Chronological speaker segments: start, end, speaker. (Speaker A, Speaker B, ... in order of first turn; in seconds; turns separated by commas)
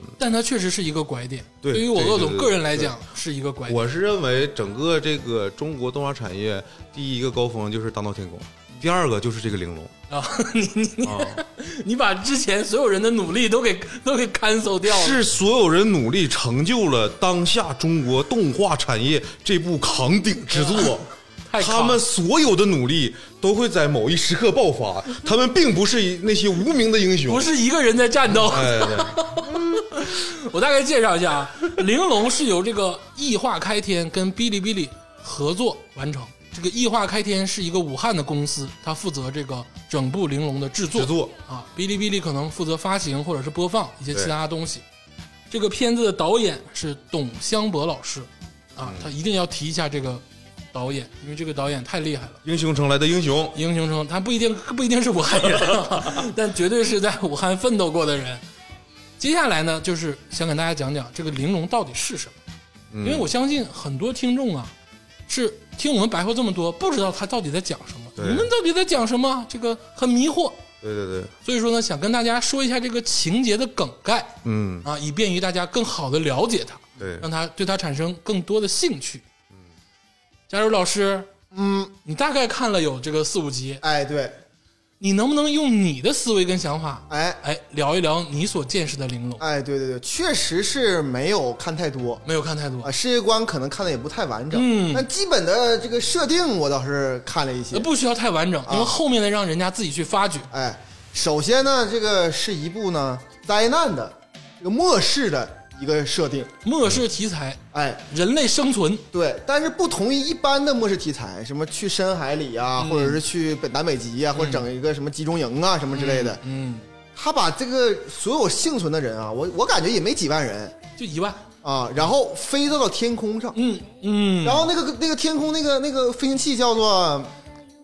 Speaker A: 0.2-3.8, Speaker B: 1.6-2.9, Speaker B: 3.7-9.9, Speaker A: 10.1-15.2, Speaker B: 11.0-11.4, Speaker B: 14.8-21.1, Speaker A: 20.5-22.0, Speaker B: 21.6-27.5, Speaker A: 27.3-44.8, Speaker B: 28.3-29.3, Speaker B: 41.0-41.3, Speaker A: 45.5-52.4, Speaker B: 48.8-49.1, Speaker B: 52.5-53.6, Speaker A: 53.5-58.4, Speaker A: 59.2-62.4, Speaker B: 62.9-63.3, Speaker A: 63.0-64.7, Speaker A: 65.3-70.6, Speaker B: 68.2-68.5, Speaker B: 70.8-71.3, Speaker A: 71.4-79.2, Speaker B: 74.5-74.9, Speaker B: 77.0-77.3, Speaker A: 80.5-81.3, Speaker C: 81.5-81.9, Speaker A: 82.0-83.8, Speaker C: 83.8-84.4, Speaker A: 85.0-89.4, Speaker C: 87.1-87.4, Speaker C: 89.4-92.2, Speaker A: 92.2-92.9, Speaker C: 92.8-97.9, Speaker A: 94.5-95.1, Speaker A: 97.7-100.5, Speaker C: 98.7-99.0, Speaker C: 100.5-106.5, Speaker A: 106.6-109.1, Speaker C: 107.7-108.0, Speaker C: 109.1-116.4, Speaker A: 112.8-113.2, Speaker A: 114.3-114.7, Speaker A: 115.9-116.9, Speaker C: 117.2-120.8, Speaker A: 121.0-121.5, Speaker C: 121.6-123.6, Speaker A: 123.5-124.7, Speaker C: 124.4-127.3